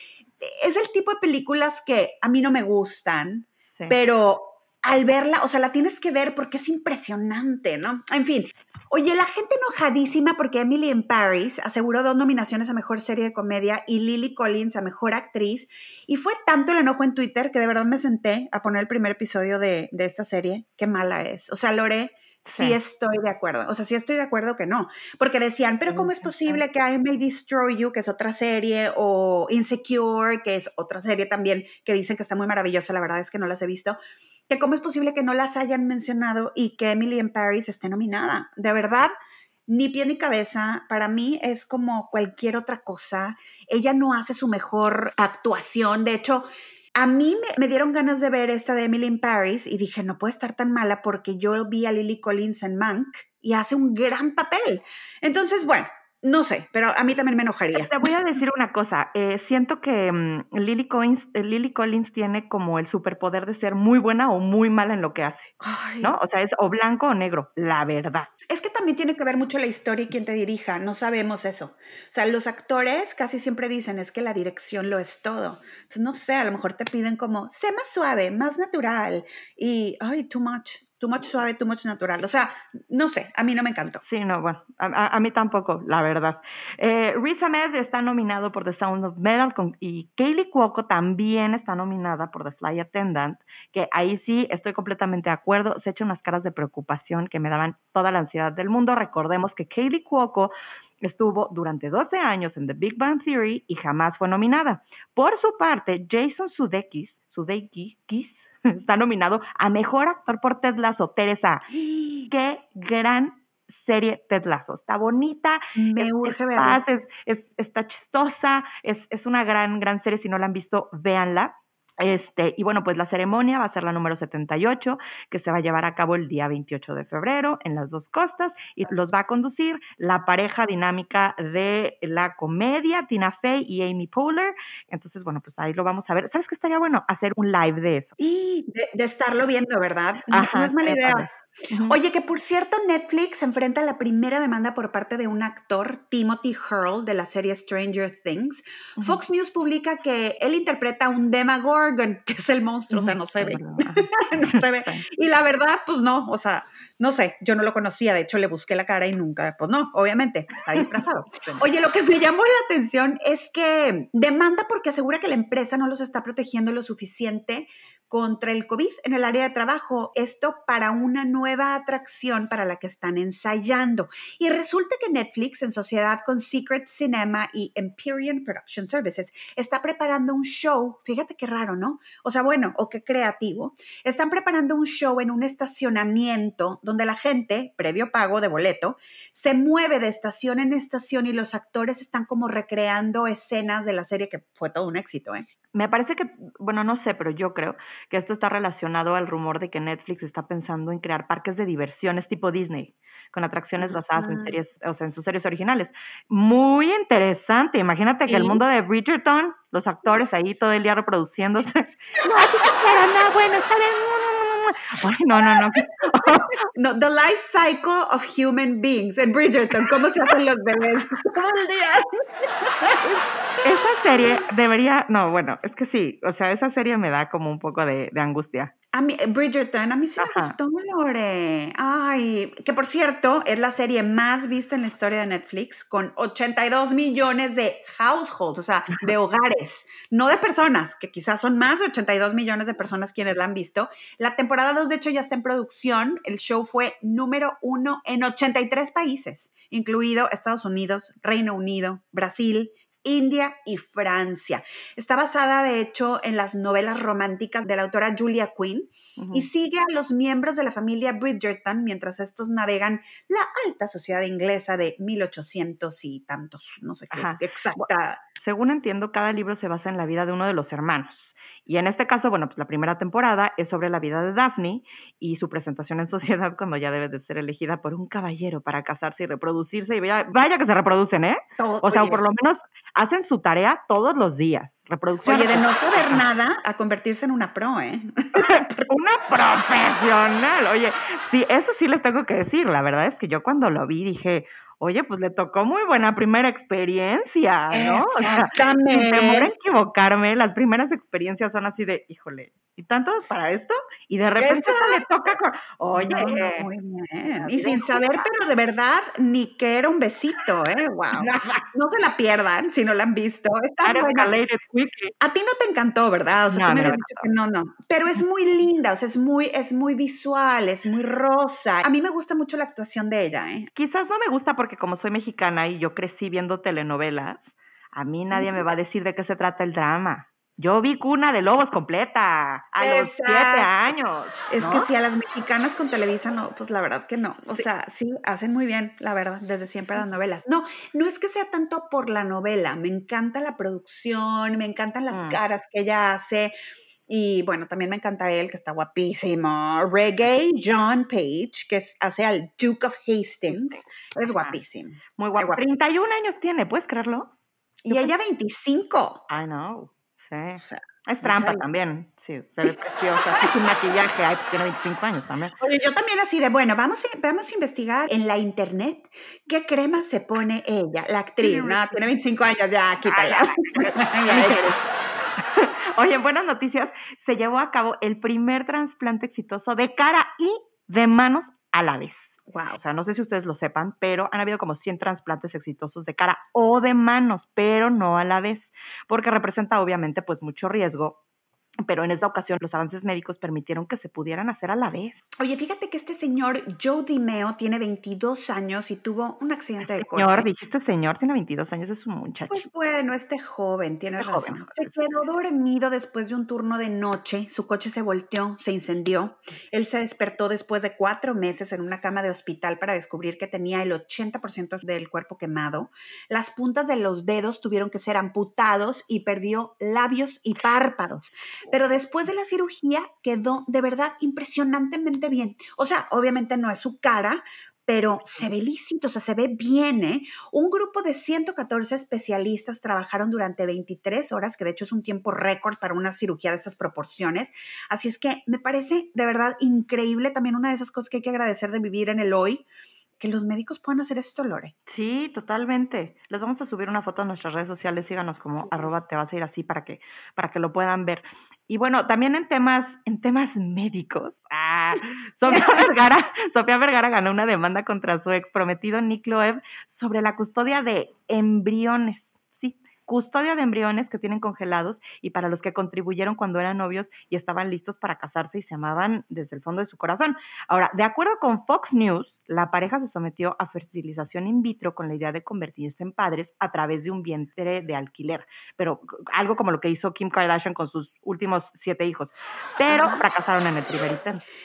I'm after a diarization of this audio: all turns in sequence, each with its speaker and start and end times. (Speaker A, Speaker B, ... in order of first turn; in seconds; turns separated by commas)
Speaker A: 0.4-34.0, Speaker B: 22.5-22.8, Speaker B: 25.9-26.6, Speaker A: 34.5-39.1, Speaker A: 39.7-58.1, Speaker B: 57.7-68.3, Speaker A: 65.6-66.1, Speaker A: 68.5-84.0, Speaker B: 84.0-111.7, Speaker A: 111.7-112.3, Speaker B: 112.3-138.2, Speaker A: 115.8-116.8, Speaker A: 138.2-141.3, Speaker B: 140.3-142.0, Speaker A: 141.9-195.5, Speaker B: 152.9-155.1, Speaker B: 160.7-161.7, Speaker B: 195.7-216.6, Speaker A: 203.8-204.6, Speaker A: 208.2-208.6, Speaker A: 215.4-224.4, Speaker B: 223.6-228.7, Speaker A: 228.9-268.2, Speaker B: 230.2-230.6, Speaker B: 259.2-259.5, Speaker B: 267.1-267.9, Speaker B: 268.4-286.3, Speaker A: 281.6-282.2, Speaker A: 285.3-288.9, Speaker B: 288.4-306.7, Speaker A: 297.7-299.5, Speaker A: 304.4-305.1, Speaker A: 305.9-314.3, Speaker B: 307.4-308.2, Speaker B: 311.1-311.7, Speaker B: 313.8-315.1, Speaker A: 315.2-323.7, Speaker B: 316.5-317.3, Speaker B: 323.8-334.9, Speaker A: 328.3-328.6, Speaker A: 332.8-333.7, Speaker A: 334.5-346.5, Speaker B: 345.1-345.4, Speaker A: 347.1-355.7, Speaker B: 353.5-354.6, Speaker B: 355.2-357.3, Speaker A: 357.9-359.2, Speaker B: 357.9-358.1, Speaker B: 359.3-365.6, Speaker A: 360.6-361.6, Speaker A: 365.6-374.7, Speaker B: 371.4-372.1, Speaker B: 373.1-374.9, Speaker B: 375.5-391.2, Speaker A: 382.5-382.8, Speaker B: 391.9-395.2, Speaker A: 395.4-400.5, Speaker B: 399.9-402.6, Speaker A: 402.5-442.7, Speaker B: 404.2-404.9, Speaker A: 443.2-444.7, Speaker B: 444.9-484.4, Speaker A: 448.6-448.9, Speaker A: 455.5-455.9, Speaker A: 482.9-483.2